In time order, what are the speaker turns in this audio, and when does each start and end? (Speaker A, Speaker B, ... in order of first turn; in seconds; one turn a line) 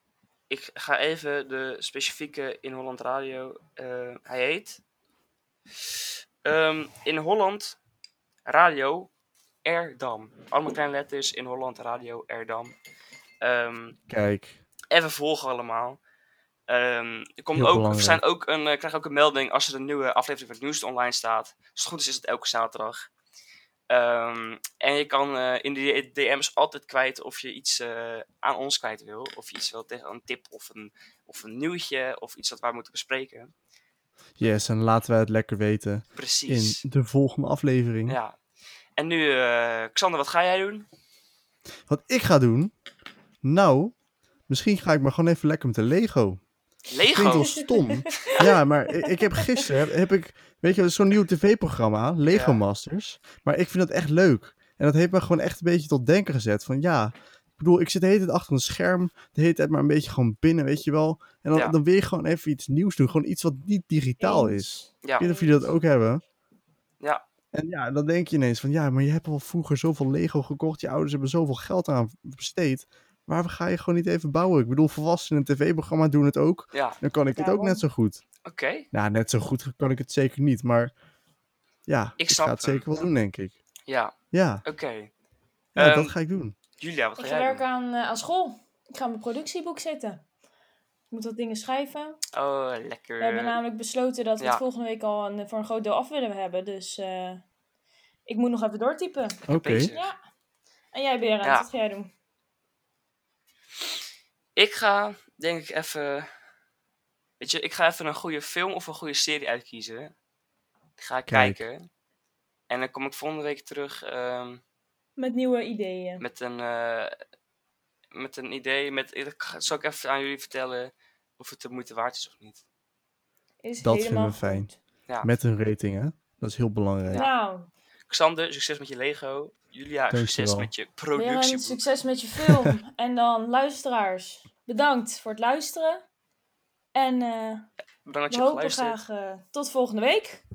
Speaker A: 0.5-4.8
Speaker A: 6.5-7.8
Speaker A: 8.5-9.1
Speaker A: 9.7-12.8
Speaker A: 13.4-14.0
Speaker B: 14.1-14.6
Speaker A: 14.9-16.0
Speaker A: 16.7-23.1
Speaker B: 17.5-18.2
Speaker A: 23.9-33.5
Speaker B: 34.4-38.2
Speaker A: 36.2-36.8
Speaker A: 38.1-38.4
Speaker A: 39.0-40.9
Speaker B: 41.9-42.7
Speaker B: 43.4-43.9
Speaker B: 44.5-46.4
Speaker A: 46.9-47.6
Speaker B: 47.1-66.2
Speaker C: 47.4-48.5
Speaker C: 49.0-49.6
Speaker A: 52.3-52.6
Speaker C: 64.2-65.8
Speaker B: 67.5-78.2
Speaker A: 76.7-77.0
Speaker C: 77.3-77.8
Speaker A: 78.5-78.9
Speaker B: 78.9-80.9
Speaker B: 81.9-83.5
Speaker A: 82.2-82.9
Speaker A: 83.9-84.1
Speaker B: 84.3-84.6
Speaker A: 84.7-85.1
Speaker B: 85.8-86.5
Speaker A: 85.8-86.2
Speaker A: 86.8-87.6
Speaker C: 87.2-90.2
Speaker C: 91.1-92.2
Speaker A: 92.3-93.6
Speaker C: 93.2-97.4
Speaker C: 98.3-100.2
Speaker B: 99.5-99.9
Speaker A: 99.5-100.1
Speaker C: 100.9-102.1
Speaker A: 104.6-106.3
Speaker A: 107.4-110.1
Speaker A: 111.0-111.9
Speaker B: 111.3-111.6
Speaker A: 112.7-114.6
Speaker C: 115.2-116.2
Speaker A: 116.2-117.2
Speaker A: 118.1-122.6
Speaker C: 123.6-124.8
Speaker B: 123.8-124.7
Speaker B: 125.2-127.3
Speaker A: 127.1-127.3
Speaker C: 127.2-127.7
Speaker A: 128.1-131.8
Speaker B: 130.1-130.7
Speaker C: 131.2-136.0
Speaker C: 136.9-137.7
Speaker A: 138.1-139.0
Speaker C: 138.3-140.4